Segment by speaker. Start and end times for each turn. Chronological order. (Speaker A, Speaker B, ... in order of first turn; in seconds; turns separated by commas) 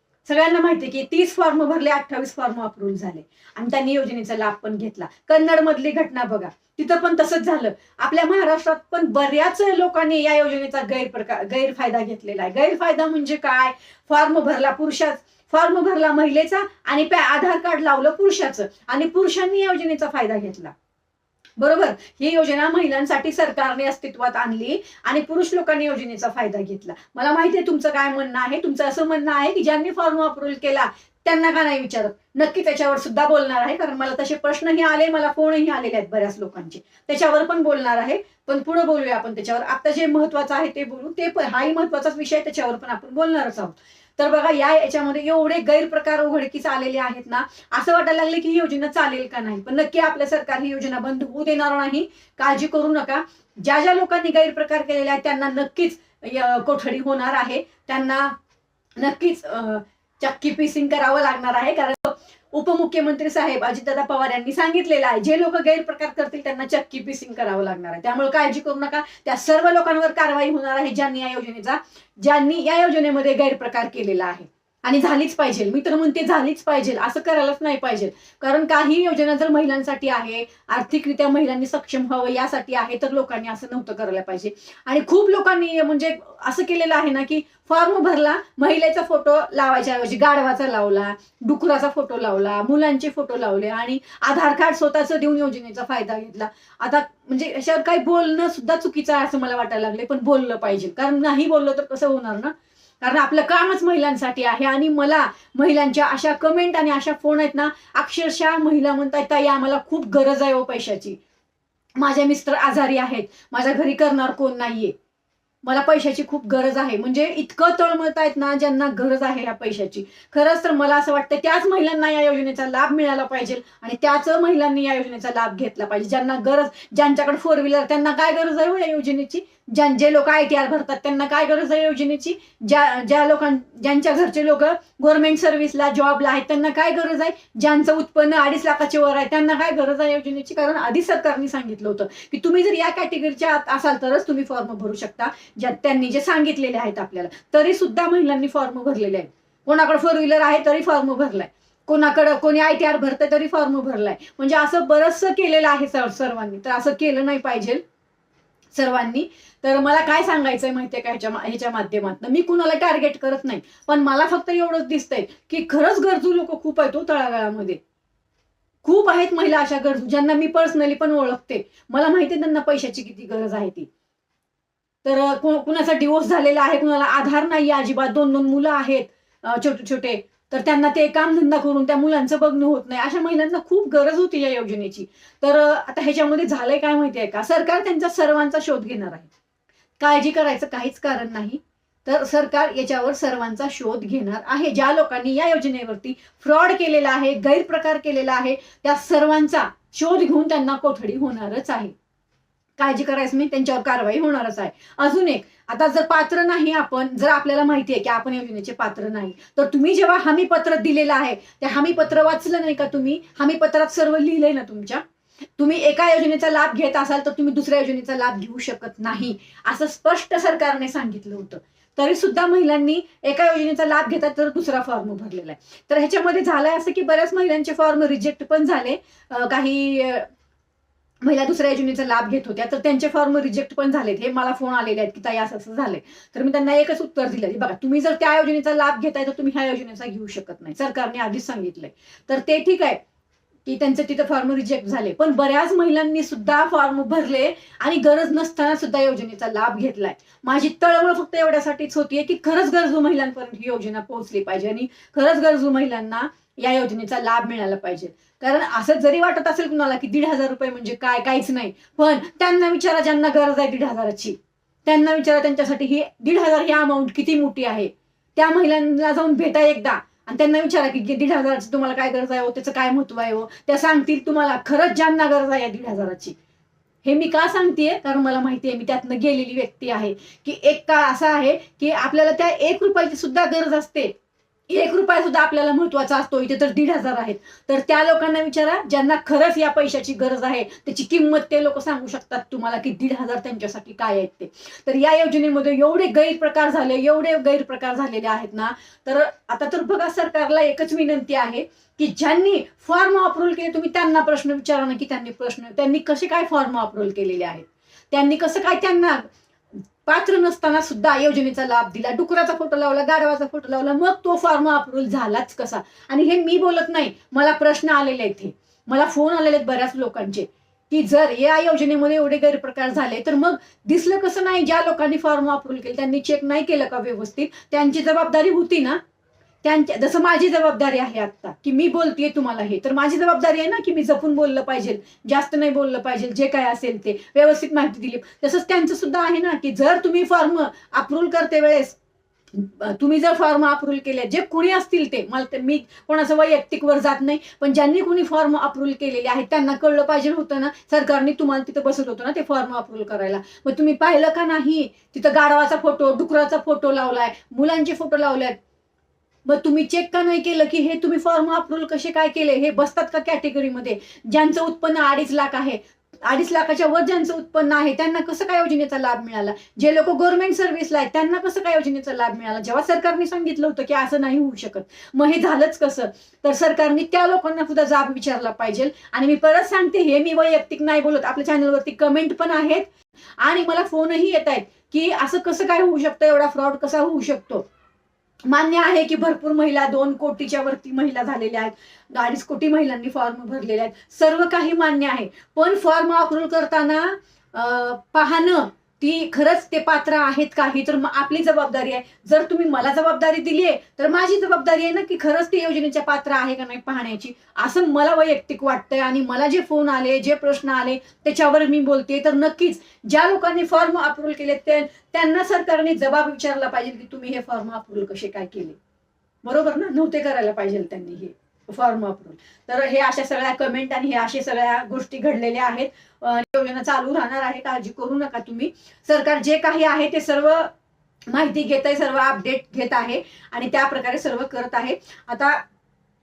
Speaker A: 0.3-20.7, Speaker A: 21.6-58.4, Speaker A: 59.0-111.2, Speaker A: 112.0-114.9, Speaker A: 115.6-157.8, Speaker A: 158.7-167.8, Speaker A: 168.8-173.9, Speaker A: 175.0-189.3, Speaker A: 190.0-201.9, Speaker A: 202.8-215.0, Speaker A: 215.6-230.3, Speaker A: 231.2-243.0, Speaker A: 243.7-276.4, Speaker A: 277.0-284.1, Speaker A: 284.7-309.2, Speaker A: 310.1-329.0, Speaker A: 329.6-342.0, Speaker A: 342.5-358.6, Speaker A: 359.5-382.9, Speaker A: 383.4-387.6, Speaker A: 388.5-418.8, Speaker A: 419.4-430.7, Speaker A: 431.3-435.6